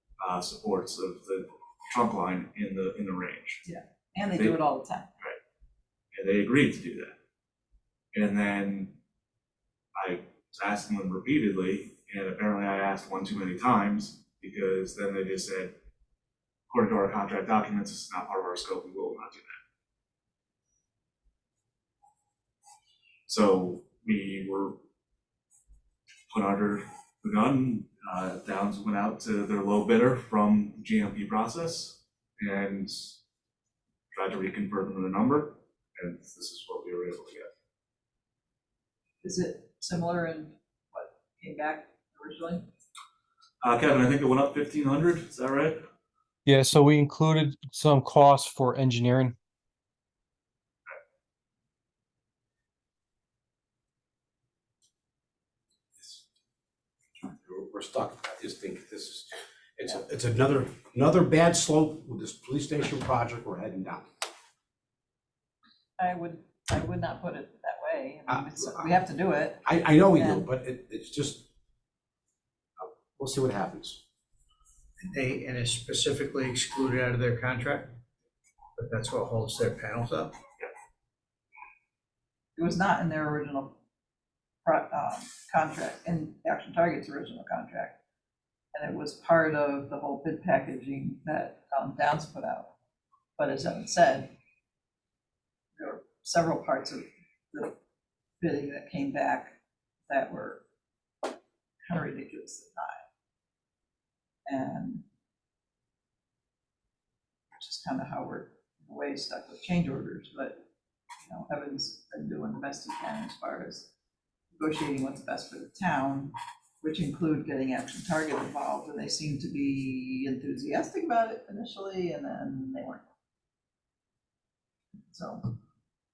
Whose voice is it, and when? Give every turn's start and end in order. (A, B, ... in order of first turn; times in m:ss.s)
0:00.2-0:03.6 A
0:03.6-0:05.1 B
0:06.1-0:07.2 A
0:08.1-0:09.0 A
0:10.0-0:15.7 A
0:16.7-0:19.6 A
0:23.3-0:24.8 A
0:26.3-0:33.2 A
0:34.1-0:37.5 A
0:39.2-0:42.7 B
0:43.6-0:45.8 A
0:46.4-0:49.3 C
0:57.2-1:04.1 D
1:06.0-1:10.4 B
1:08.3-1:08.9 D
1:09.6-1:11.5 D
1:12.8-1:14.0 D
1:15.0-1:17.9 E
1:18.8-1:20.3 E
1:22.6-1:23.8 B
1:24.6-1:28.0 B
1:28.7-1:32.7 B
1:33.4-1:34.3 B
1:35.8-1:37.7 B
1:38.4-1:39.5 B
1:40.1-1:40.6 B
1:41.8-1:43.0 B
1:44.4-1:45.0 B
1:47.5-1:50.6 B
1:51.2-1:53.9 B
1:54.5-2:03.0 B
2:05.1-2:05.4 B